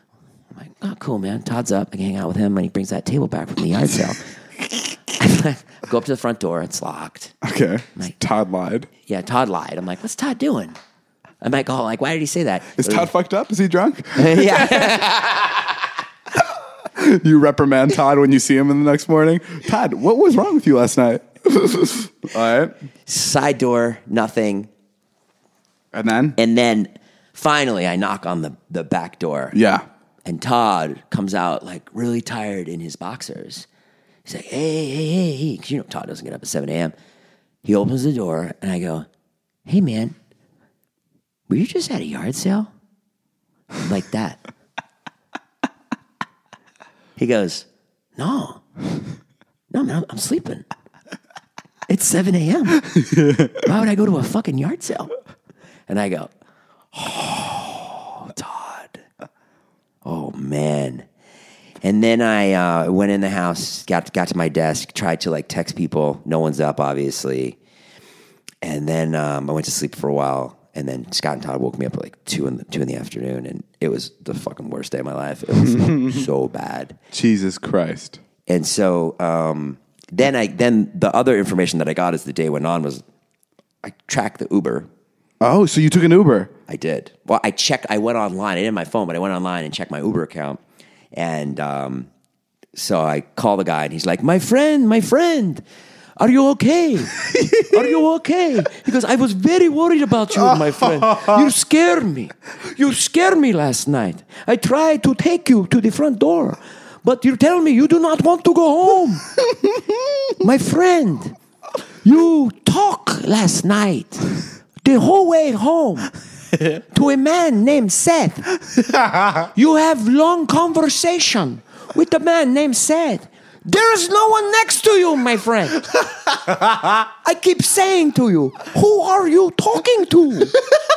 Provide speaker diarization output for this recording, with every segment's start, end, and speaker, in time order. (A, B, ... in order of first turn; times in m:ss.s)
0:00.5-0:04.3 A
0:05.1-0:07.3 A
0:07.4-0:08.9 B
0:09.0-0:10.8 A
0:11.4-0:13.1 A
0:12.8-0:15.0 B
0:14.2-0:15.8 A
0:17.0-0:22.7 B
0:23.1-0:24.7 A
0:25.9-0:26.4 B
0:26.4-0:29.6 A
0:29.5-0:29.8 B
0:30.2-0:33.7 A
0:34.2-0:36.9 A
0:37.6-0:39.1 A
0:39.6-0:40.1 A
0:41.5-0:42.7 A
0:43.8-0:44.4 A
0:47.2-0:48.6 A
0:49.7-0:50.6 A
0:51.9-0:52.9 A
0:52.8-0:53.6 B
0:53.6-0:55.1 A
0:55.9-0:56.3 A
0:56.9-0:59.0 A
1:00.0-1:01.0 A
1:01.8-1:07.6 A
1:08.6-1:17.0 A
1:15.6-1:16.2 B
1:17.1-1:18.2 B
1:18.4-1:23.0 A
1:23.8-1:24.9 A
1:25.4-1:26.5 B
1:26.7-1:30.6 A
1:31.1-1:32.1 A
1:32.7-1:35.6 A
1:36.2-1:49.2 A
1:37.3-1:37.7 B
1:50.4-1:51.3 A
1:52.0-1:56.1 A
1:56.7-1:58.5 A
1:59.3-2:05.9 A
2:06.9-2:10.5 A